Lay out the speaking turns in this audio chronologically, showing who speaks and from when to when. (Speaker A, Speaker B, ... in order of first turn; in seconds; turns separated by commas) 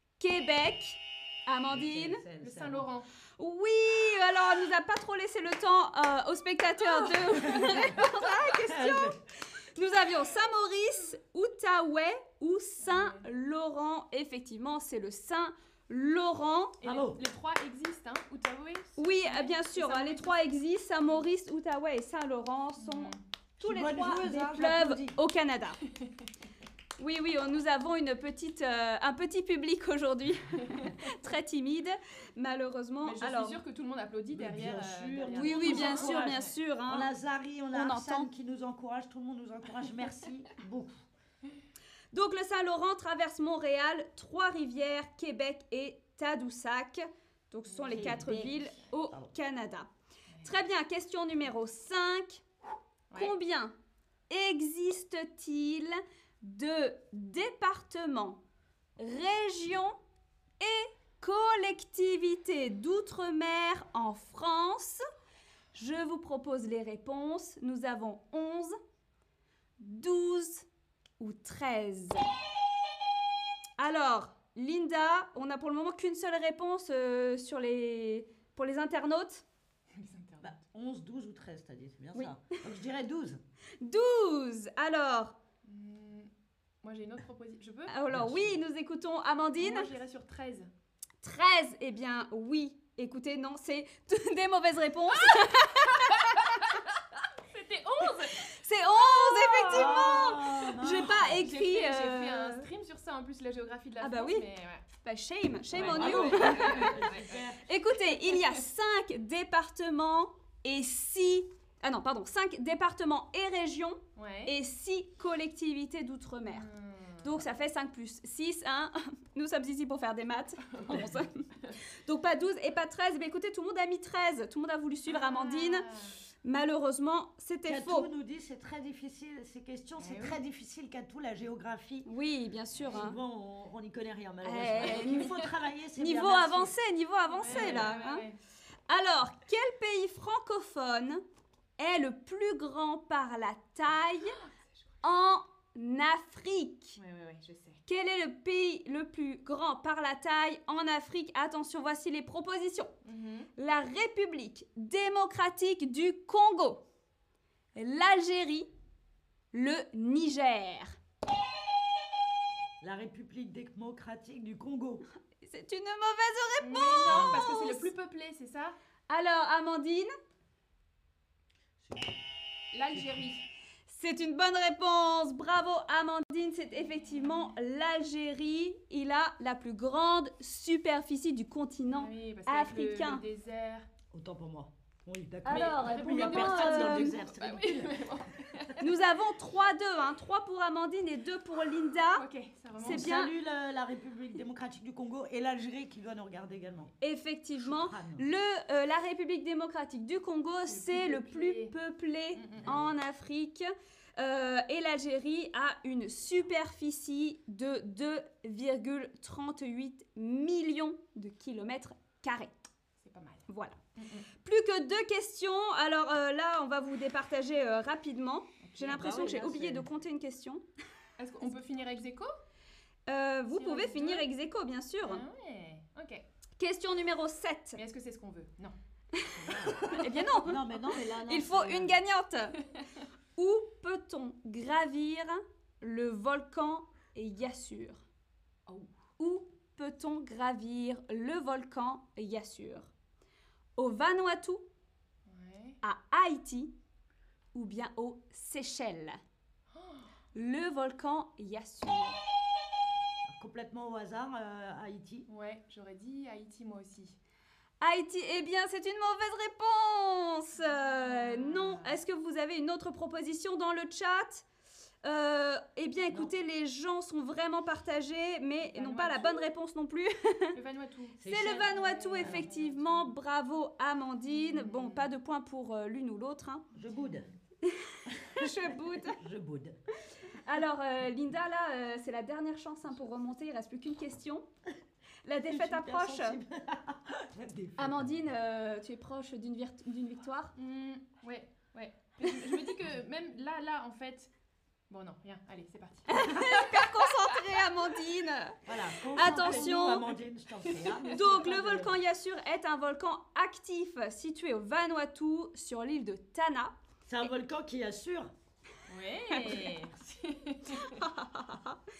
Speaker A: 0.2-2.2, Speaker B: 1.7-2.9, Speaker C: 2.4-3.1, Speaker A: 3.4-16.8, Speaker C: 6.8-7.8, Speaker B: 8.4-9.2, Speaker C: 12.8-13.2, Speaker C: 16.8-20.4, Speaker B: 16.8-17.2, Speaker A: 19.0-25.8, Speaker C: 22.8-23.2, Speaker B: 23.6-25.2, Speaker A: 27.0-33.6, Speaker C: 33.0-36.5, Speaker B: 34.3-41.0, Speaker A: 35.3-37.1, Speaker A: 37.7-38.3, Speaker A: 42.1-49.9, Speaker C: 47.7-48.6, Speaker B: 47.9-49.3, Speaker A: 50.4-52.4, Speaker A: 53.1-53.7, Speaker A: 54.3-58.4, Speaker A: 59.0-59.9, Speaker A: 60.6-65.0, Speaker A: 65.7-68.7, Speaker A: 69.8-70.7, Speaker A: 71.2-72.2, Speaker A: 73.8-79.4, Speaker C: 79.9-80.5, Speaker B: 80.4-83.4, Speaker A: 82.1-82.4, Speaker A: 83.8-85.3, Speaker C: 85.6-86.3, Speaker C: 86.8-88.0, Speaker A: 87.9-89.9, Speaker B: 88.1-88.6, Speaker C: 89.6-90.7, Speaker A: 91.2-96.6, Speaker C: 95.1-100.0, Speaker A: 98.5-102.7, Speaker B: 99.7-101.4, Speaker C: 101.2-104.9, Speaker A: 104.0-104.5, Speaker A: 105.0-116.7, Speaker C: 105.7-108.6, Speaker B: 105.7-107.7, Speaker C: 114.2-114.5, Speaker C: 116.4-117.4, Speaker A: 117.2-125.9, Speaker C: 120.7-121.8, Speaker C: 125.1-126.2, Speaker A: 126.4-128.1, Speaker B: 127.7-132.1, Speaker C: 130.0-130.4, Speaker A: 132.0-133.2, Speaker B: 132.8-136.7, Speaker A: 134.4-135.4, Speaker C: 134.8-135.5, Speaker A: 135.9-138.2, Speaker C: 137.3-138.4, Speaker B: 137.4-137.9, Speaker A: 138.9-141.2, Speaker A: 141.8-144.4, Speaker A: 145.0-147.0, Speaker C: 146.9-147.8, Speaker A: 147.9-152.9, Speaker C: 153.0-153.5, Speaker A: 153.6-156.8, Speaker A: 157.8-158.7, Speaker A: 159.5-160.9, Speaker B: 162.8-165.0, Speaker A: 165.4-167.9, Speaker C: 166.6-168.7, Speaker B: 167.1-167.4, Speaker A: 169.1-170.1, Speaker B: 171.8-172.2, Speaker C: 172.7-173.4, Speaker B: 172.9-173.2, Speaker A: 173.9-183.2, Speaker C: 181.9-183.9, Speaker B: 184.1-188.2, Speaker A: 185.4-187.2, Speaker C: 185.4-188.9, Speaker A: 188.8-192.2, Speaker C: 192.1-193.1, Speaker B: 192.8-196.9, Speaker A: 192.8-193.3, Speaker A: 197.0-212.5, Speaker B: 197.6-198.3, Speaker C: 200.6-201.7, Speaker C: 202.3-202.8, Speaker B: 202.6-202.9, Speaker C: 213.0-214.3, Speaker A: 213.5-213.8, Speaker A: 214.4-220.6, Speaker C: 218.6-219.4, Speaker B: 218.9-219.9, Speaker C: 221.2-222.3, Speaker A: 223.1-225.2, Speaker C: 223.5-224.3, Speaker C: 225.0-226.2, Speaker A: 226.6-227.8, Speaker C: 227.7-228.7, Speaker A: 229.2-232.7, Speaker B: 229.3-232.0, Speaker A: 233.3-238.1, Speaker C: 238.7-238.9, Speaker A: 239.2-242.9, Speaker A: 243.8-244.6, Speaker C: 245.3-245.8, Speaker A: 245.8-246.7, Speaker A: 247.5-249.2, Speaker C: 249.7-250.1, Speaker A: 250.3-252.2, Speaker B: 253.2-255.3, Speaker C: 255.3-257.2, Speaker A: 257.8-264.4, Speaker C: 260.9-262.0, Speaker A: 265.0-270.5, Speaker C: 268.6-269.5, Speaker C: 270.5-273.1, Speaker B: 271.2-272.5, Speaker A: 271.2-276.7, Speaker C: 274.3-275.1, Speaker B: 276.7-277.3, Speaker C: 276.9-277.2, Speaker A: 277.6-279.2, Speaker B: 278.2-279.8, Speaker A: 280.1-284.4, Speaker A: 285.2-286.4, Speaker B: 285.5-288.1, Speaker A: 287.8-290.5, Speaker C: 290.6-294.3, Speaker C: 294.9-297.1, Speaker A: 296.1-300.1, Speaker B: 298.6-301.9, Speaker C: 299.2-301.8, Speaker A: 301.1-307.2, Speaker B: 307.1-308.3, Speaker C: 308.9-311.0, Speaker A: 309.4-309.6, Speaker A: 310.8-311.8